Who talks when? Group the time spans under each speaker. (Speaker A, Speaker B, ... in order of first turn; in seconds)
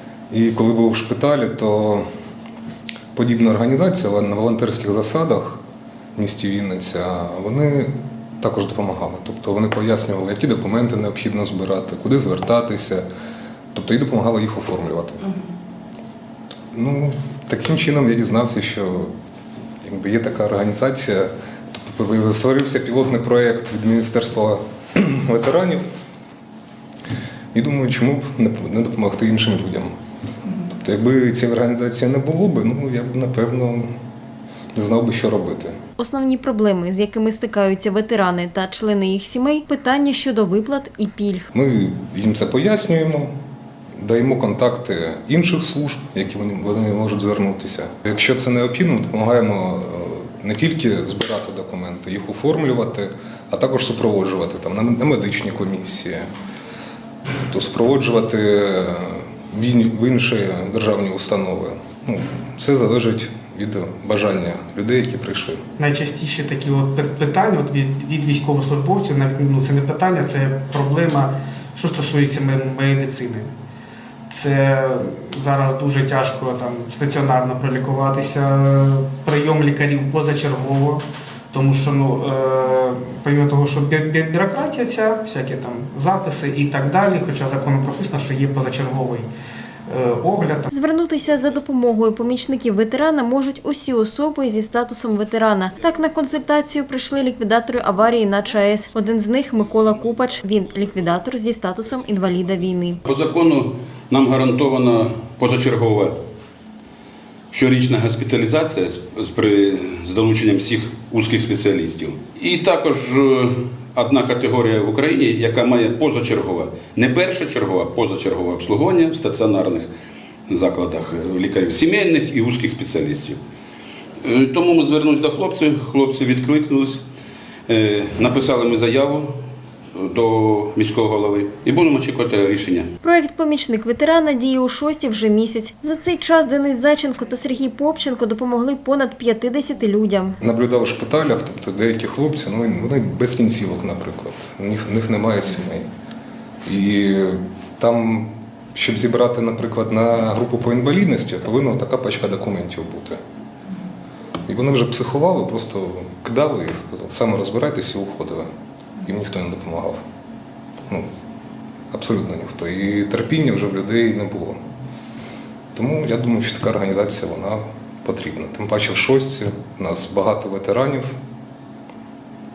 Speaker A: 0.3-2.0, 3.1-5.6, 6.2-13.1, 13.7-15.4, 16.7-19.1, 19.8-25.9, 27.5-29.9, 30.6-33.9, 34.8-35.8, 41.5-43.3, 44.0-56.3, 57.4-65.6, 140.4-145.9, 146.7-153.2, 154.5-160.0, 161.9-164.6, 165.8-171.2
Speaker B: 36.0-41.5, 90.7-103.0, 133.0-140.4
Speaker C: 65.8-73.5, 74.3-89.3, 89.9-90.7
Speaker D: 103.0-106.2, 107.5-119.9, 120.5-123.4, 124.2-127.0, 127.7-129.3, 129.9-132.9